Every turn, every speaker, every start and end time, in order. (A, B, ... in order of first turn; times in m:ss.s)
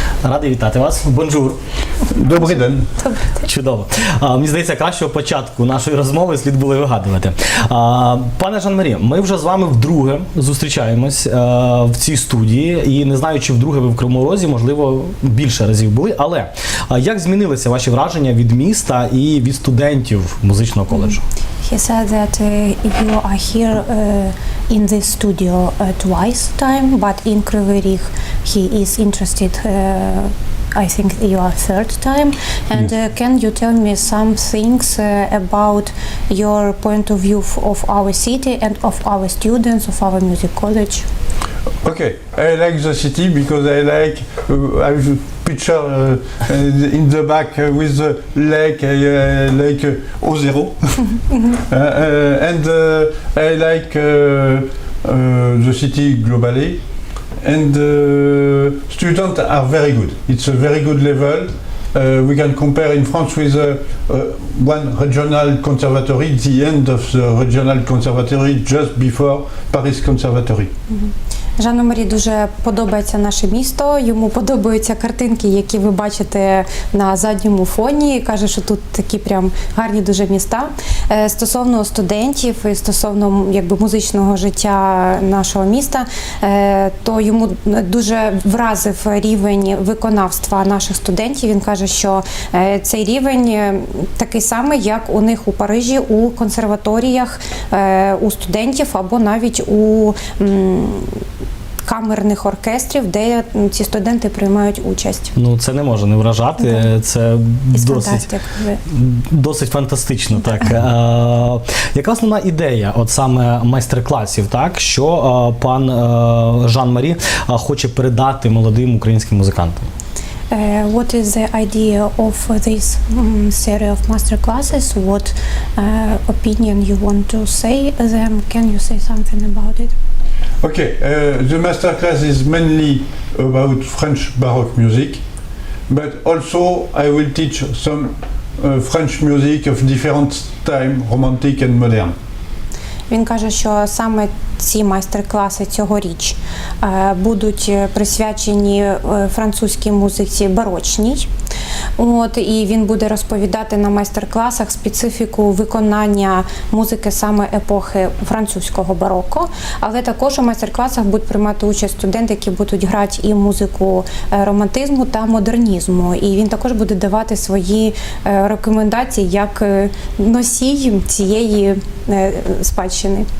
0:00.2-0:01.6 A
0:02.1-0:02.9 B
0:03.0-0:03.4 C
0:03.4-0:21.2 A
0:20.9-0:41.1 C
0:41.8-0:56.8 B
0:57.4-1:10.7 B
1:10.9-1:41.2 C
1:41.8-1:45.3 C
1:45.4-1:48.2 A
1:46.6-1:46.9 C
1:47.7-1:48.8 C
1:48.9-1:59.9 A
2:00.5-2:10.0 C
2:10.6-2:15.2 B
2:15.9-2:22.1 B
2:23.1-2:31.3 C
2:32.0-2:53.3 C